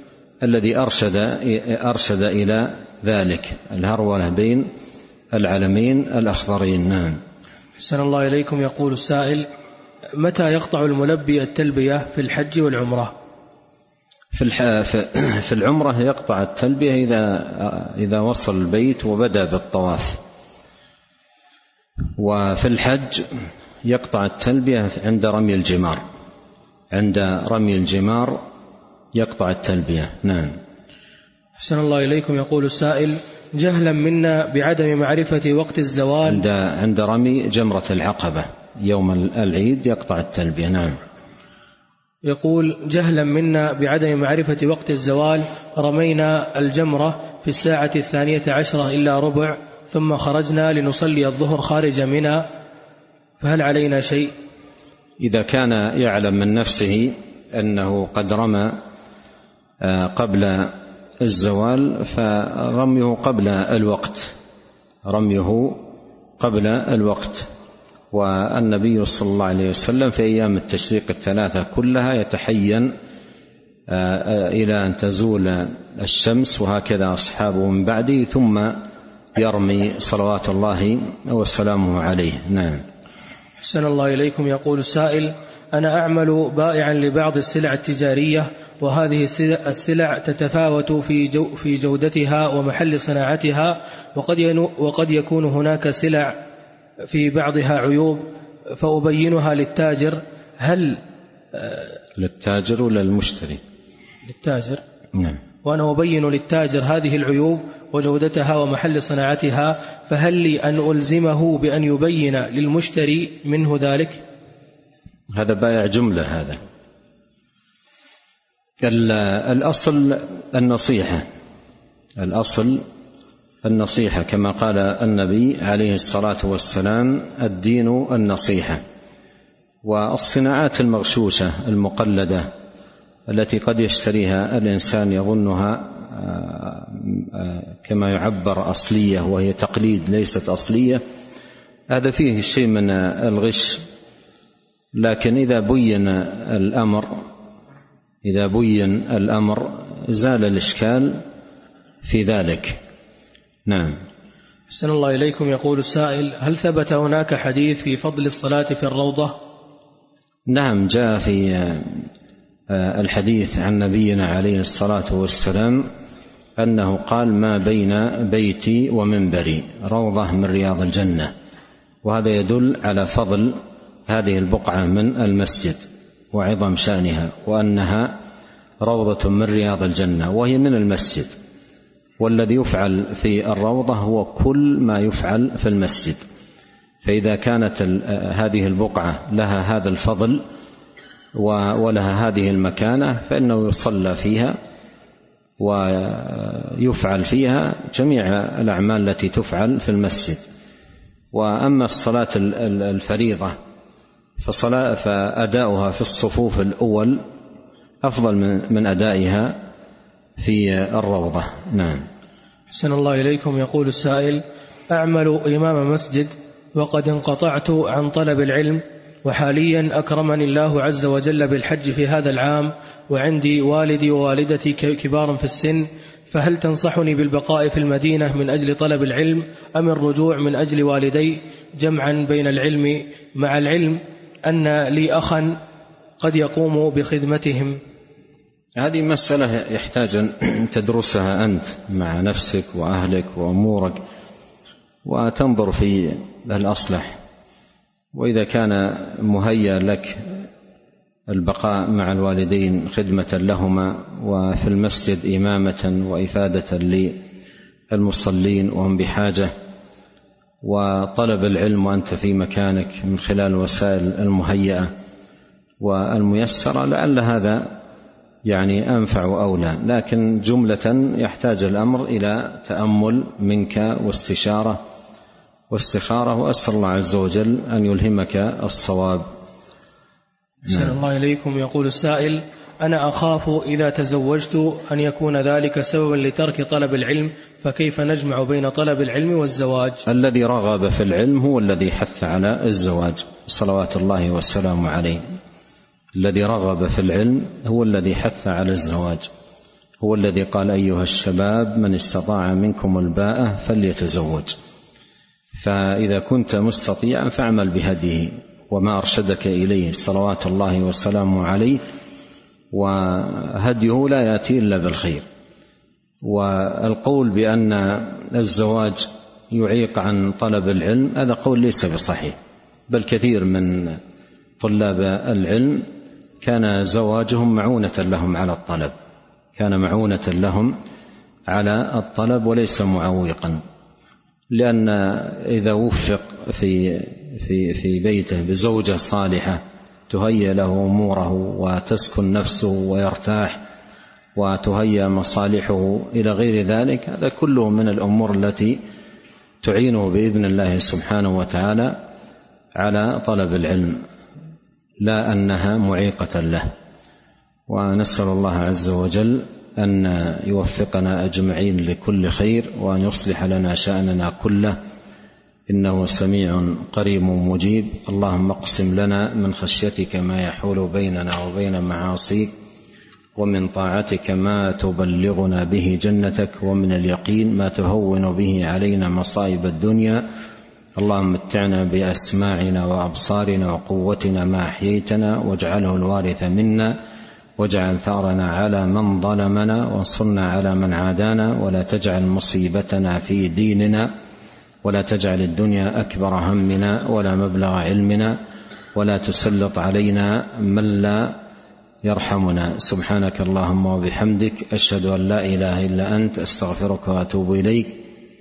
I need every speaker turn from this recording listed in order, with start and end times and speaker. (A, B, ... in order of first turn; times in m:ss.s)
0:00.4-0:04.7 A
0:05.3-0:07.2 A
0:07.8-0:09.5 B
0:10.2-0:13.1 B
0:14.3-0:20.2 A
0:22.2-0:23.3 A
0:23.8-0:26.0 A
0:26.9-0:28.4 A
0:29.1-0:30.5 A
0:31.6-0:36.4 B
0:36.2-0:41.0 A
0:42.2-0:52.4 B
0:53.4-0:54.3 B
0:55.2-0:58.8 A
0:59.8-1:04.3 A
1:05.1-1:05.8 A
1:06.4-1:07.5 A
1:08.1-1:12.9 A
1:13.9-1:22.8 A
1:23.6-1:36.4 B
1:37.1-1:41.0 B
1:41.5-1:41.9 B
1:42.2-1:43.6 A
1:44.3-1:44.8 B
1:45.6-1:54.2 B
1:55.3-1:56.6 A
1:58.8-2:01.2 A
2:02.2-2:02.8 A
2:03.6-2:08.8 A
2:09.8-2:12.5 A
2:13.3-2:21.0 A
2:21.9-2:23.8 A
2:25.0-2:27.2 A
2:28.2-2:31.2 A
2:32.0-2:32.8 A
2:33.7-2:34.0 A
2:34.7-2:39.4 B
2:40.5-2:42.1 A
2:42.7-2:45.8 A
2:46.6-2:51.3 A
2:52.0-2:58.2 A
2:58.8-3:01.3 A
3:02.2-3:06.2 A
3:07.0-3:10.4 A
3:11.4-3:14.5 A
3:15.6-3:20.4 A
3:21.3-3:23.5 A
3:24.4-3:27.2 A
3:28.0-3:29.6 A
3:30.4-3:32.0 A
3:32.7-3:55.6 B
3:56.2-3:57.8 B
3:58.8-4:04.0 A
4:05.0-4:07.2 A
4:08.1-4:10.4 A
4:11.3-4:17.2 A
4:17.9-4:19.5 A
4:20.6-4:24.9 A
4:25.8-4:27.8 A
4:28.5-4:34.8 A
4:35.7-4:39.2 A
4:40.7-4:50.0 B
4:50.0-4:55.2 A
4:56.1-4:59.3 A
5:00.0-5:04.5 A
5:05.5-5:11.8 A
5:12.7-5:15.2 A
5:16.2-5:22.4 A
5:22.9-5:24.0 A
5:24.6-5:25.9 A
5:26.4-5:28.9 A
5:29.6-5:30.7 A
5:31.5-5:33.6 A
5:34.5-5:43.6 A
5:44.4-5:48.8 A
5:49.6-5:52.0 A
5:52.8-5:54.0 A
5:55.0-5:56.7 A
5:57.7-6:04.8 A
6:05.7-6:12.5 A
6:13.4-6:20.2 A
6:21.0-6:27.0 A
6:27.6-6:34.1 A
6:34.8-6:38.4 A
6:38.9-6:41.4 A
6:42.0-6:48.0 A